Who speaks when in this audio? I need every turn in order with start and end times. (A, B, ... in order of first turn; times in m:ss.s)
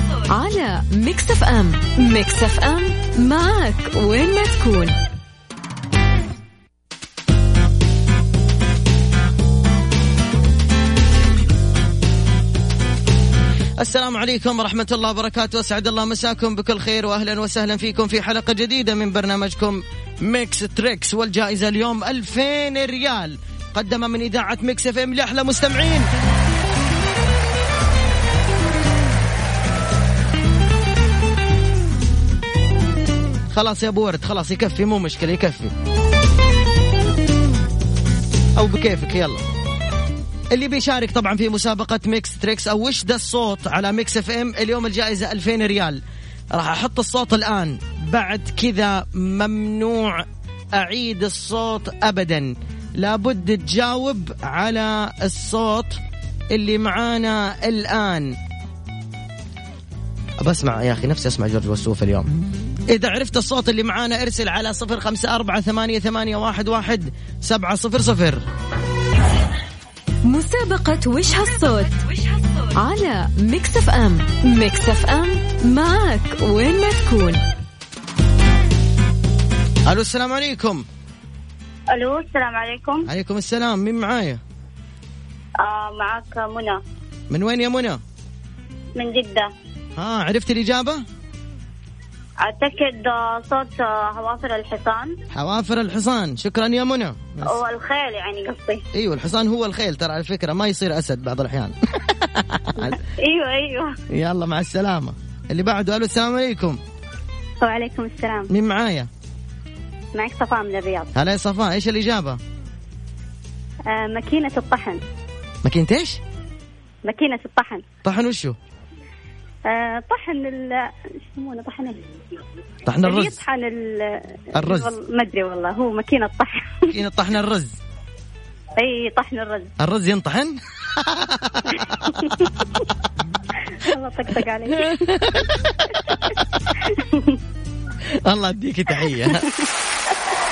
0:00.3-0:05.0 A
0:13.8-0:26.1 B
0:33.5-0:35.7 B
0:38.6-0:39.4 B
0:40.5-0:46.0 B
0:46.5-0:56.0 B
0:56.5-0:58.4 B
1:00.4-1:02.3 B
1:02.9-1:08.4 B
1:10.3-1:12.0 A
1:12.8-1:17.4 A
1:19.9-1:20.9 B
1:21.9-1:23.1 C
1:23.1-1:24.4 B
1:25.6-1:26.8 C
1:27.3-1:28.0 B
1:29.0-1:29.5 C
1:30.0-1:31.0 B
1:32.4-1:35.2 C
1:35.3-1:37.6 B
1:37.4-1:38.8 C
1:38.9-1:43.0 B
1:42.8-1:43.9 C
1:44.1-1:46.8 B
1:47.6-1:48.5 C
1:48.5-1:49.1 B
1:50.1-1:51.1 C
1:51.1-1:52.4 B
1:53.9-1:55.0 C
1:55.6-1:56.2 B
1:57.0-1:57.8 C
1:58.0-1:58.6 B
1:59.7-2:02.0 C
2:02.8-2:03.4 B
2:03.0-2:06.8 C
2:04.6-2:04.9 B
2:06.9-2:07.8 B
2:08.8-2:09.7 C
2:09.8-2:12.0 B
2:11.8-2:12.5 C
2:13.8-2:14.9 C
2:14.7-2:16.0 B
2:16.9-2:17.4 C
2:18.0-2:19.5 B